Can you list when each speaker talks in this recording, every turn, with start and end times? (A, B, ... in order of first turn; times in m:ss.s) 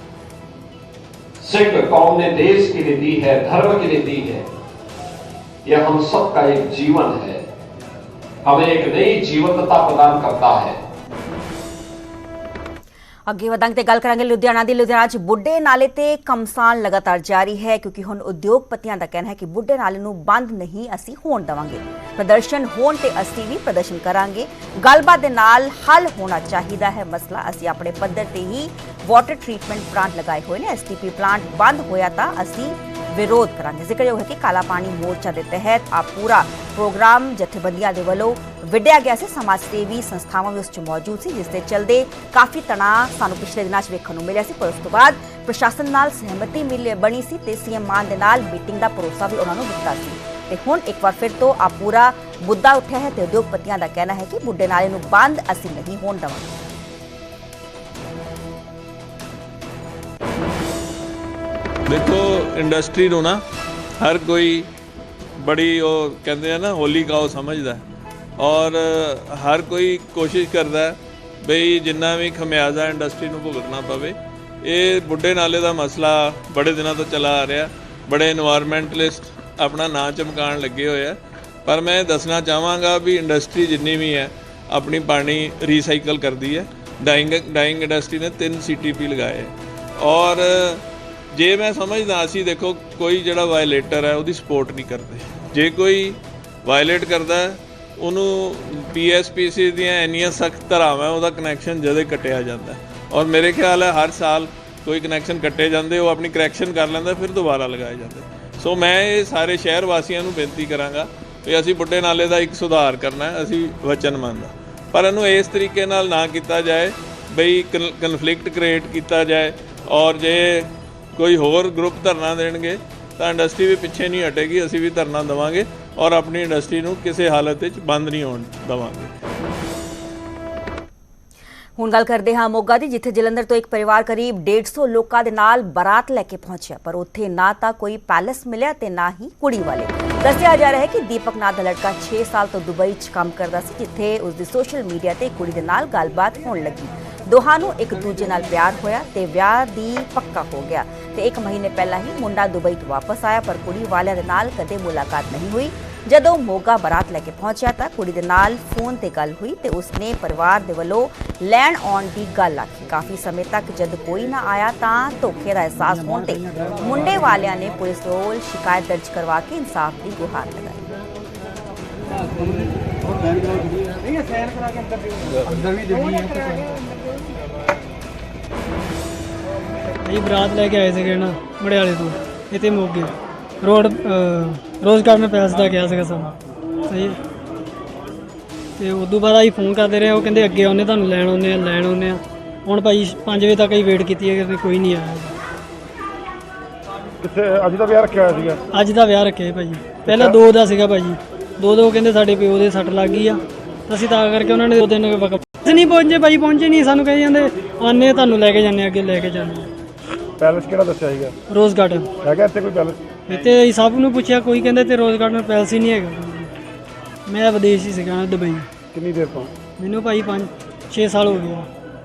0:01.4-0:04.4 A
0:05.6-0:07.4 A
0:08.4-0:10.8 A
0:13.3-0:56.5 B
1:01.9-1:03.4 C
1:04.0-1:04.7 C
1:05.4-1:07.8 C
1:08.4-1:30.8 C
1:31.3-2:09.1 C
2:11.8-2:50.8 B
3:00.0-3:06.3 D
3:06.9-3:07.2 D
3:08.8-3:15.3 D
3:17.2-3:18.6 E
3:18.7-3:29.7 D
3:20.0-3:20.4 E
3:30.4-3:31.3 E
3:31.5-3:32.1 D
3:32.2-3:33.0 E
3:33.3-3:36.5 D
3:37.2-3:38.7 D
3:38.8-3:39.5 E
3:39.8-3:41.7 D